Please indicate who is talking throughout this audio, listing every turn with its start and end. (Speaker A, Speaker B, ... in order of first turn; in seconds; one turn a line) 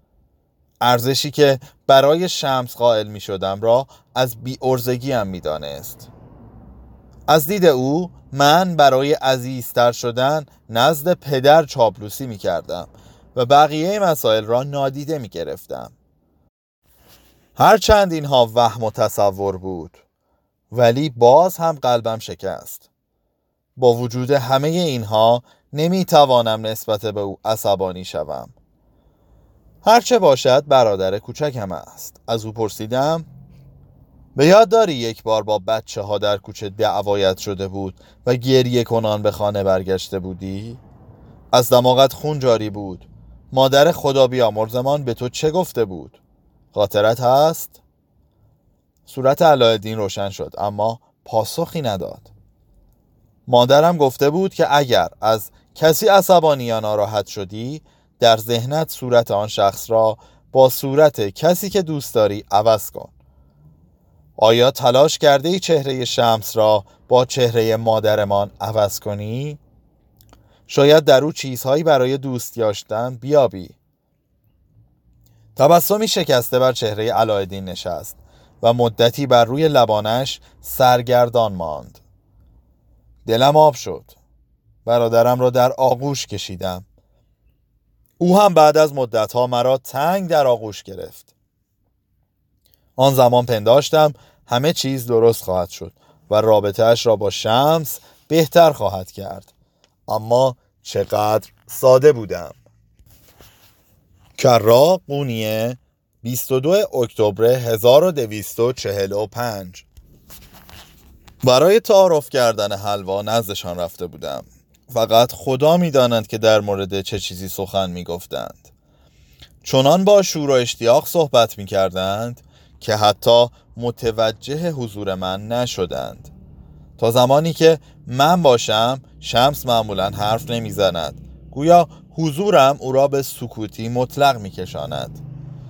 Speaker A: 0.8-6.1
Speaker A: 7.3-15.9
Speaker A: 17.6-20.0
Speaker A: 20.7-22.9
Speaker A: 23.8-28.5
Speaker A: 29.8-33.3
Speaker A: 34.3-40.8
Speaker A: 41.5-46.2
Speaker A: 46.7-47.8
Speaker A: 49.0-52.3
Speaker A: 53.5-63.1
Speaker A: 64.4-69.6
Speaker A: 70.7-73.8
Speaker A: 75.5-82.0
Speaker A: 83.2-84.2
Speaker A: 84.8-86.8
Speaker A: 88.2-91.3
Speaker A: 93.0-99.5
Speaker A: 100.1-102.6
Speaker A: 104.4-109.8
Speaker A: 111.4-118.7
Speaker A: 119.6-126.3
Speaker A: 127.0-135.2